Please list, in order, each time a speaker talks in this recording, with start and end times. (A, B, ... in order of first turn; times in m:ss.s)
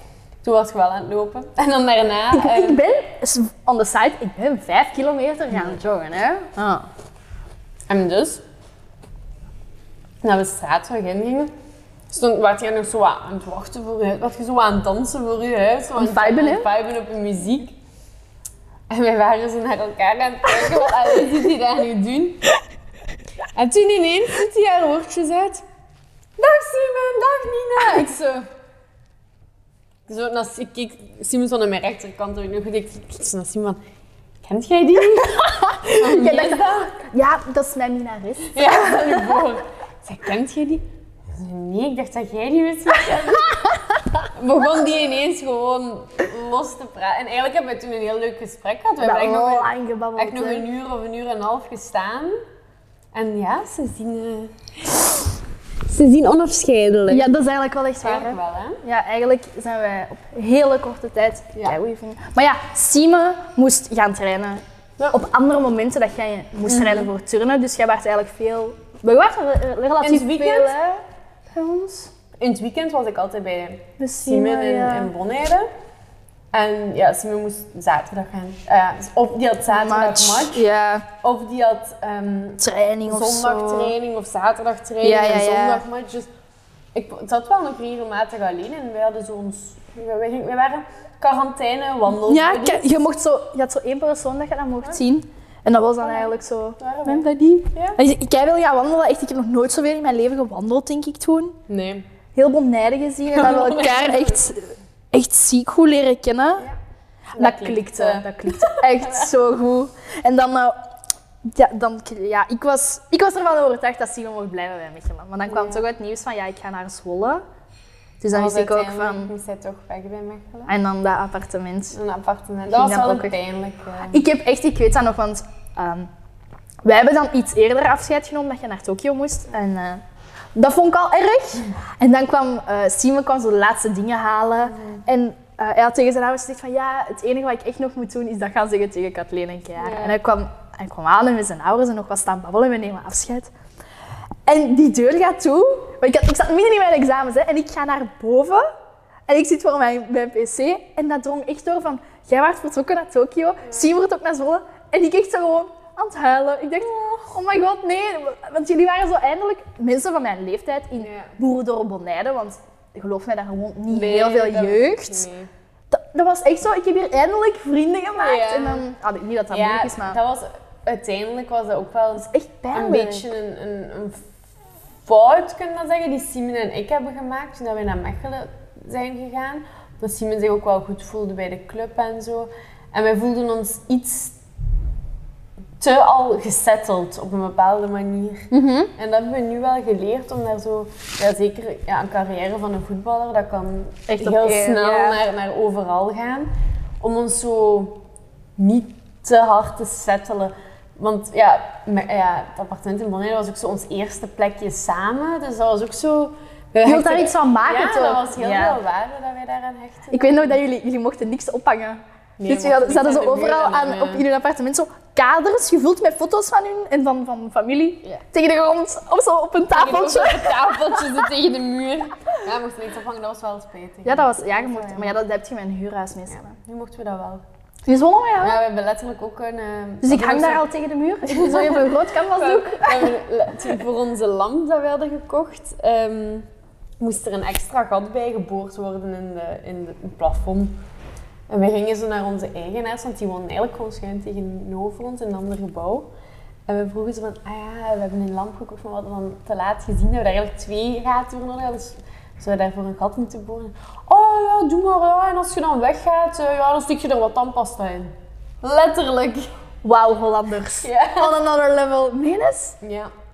0:00.4-0:02.8 A
0:02.3-0:06.9 B
0:07.9-0:08.4 A
0:10.2-0:11.5 A
0:12.1-0:17.8 A
0:16.0-0:16.7 B
0:18.9-0:22.5 A
0:23.5-0:25.6 A
0:26.4-0:28.5 A
0:30.1-0:33.8 A
0:34.4-0:36.8 A
0:35.7-0:39.5 B
0:38.5-0:43.6 A
0:44.4-0:52.4 A
0:49.0-0:50.7 B
0:53.1-0:55.3 A
0:55.9-0:57.3 A
0:57.1-1:12.1 B
0:58.0-0:58.8 A
1:06.7-1:07.1 A
1:10.0-1:10.7 A
1:12.4-1:15.7 A
1:14.0-1:15.1 B
1:16.5-1:20.6 A
1:19.7-1:21.1 B
1:21.2-1:26.3 A
1:22.6-1:23.9 B
1:25.0-1:25.8 B
1:27.0-1:33.0 A
1:32.1-1:41.6 B
1:36.8-1:38.0 A
1:41.7-1:42.0 A
1:42.4-1:46.7 B
1:43.3-1:44.5 A
1:47.3-1:49.3 A
1:47.4-1:50.8 B
1:51.4-1:57.4 B
1:55.5-1:55.8 A
1:58.2-1:59.3 B
1:58.3-2:00.8 A
2:00.7-2:02.0 B
2:01.9-2:04.2 A
2:02.7-2:03.4 B
2:04.1-2:06.1 B
2:06.8-2:10.0 B
2:10.6-2:23.5 B
2:14.6-2:15.0 A
2:19.8-2:20.2 A
2:24.5-2:28.7 B
2:29.3-2:45.3 B
2:41.0-2:41.4 A
2:43.9-2:45.5 A
2:45.9-2:50.2 B
2:48.2-2:48.9 A
2:49.5-2:54.3 A
2:52.3-2:53.3 B
2:55.0-3:04.4 A
3:05.8-3:18.0 A
3:08.5-3:08.9 B
3:14.1-3:15.2 B
3:18.6-3:30.6 A
3:26.8-3:28.8 B
3:30.1-3:41.2 B
3:32.4-3:34.2 A
3:39.7-3:45.1 A
3:44.0-3:46.5 B
3:46.3-3:47.4 A
3:47.9-3:48.6 B
3:48.4-3:50.7 A
3:50.0-3:53.1 B
3:51.3-3:56.5 A
3:57.0-4:00.8 A
4:01.5-4:06.1 A
4:06.7-4:19.5 A
4:19.8-4:22.8 B
4:20.8-4:21.4 A
4:22.8-4:23.1 A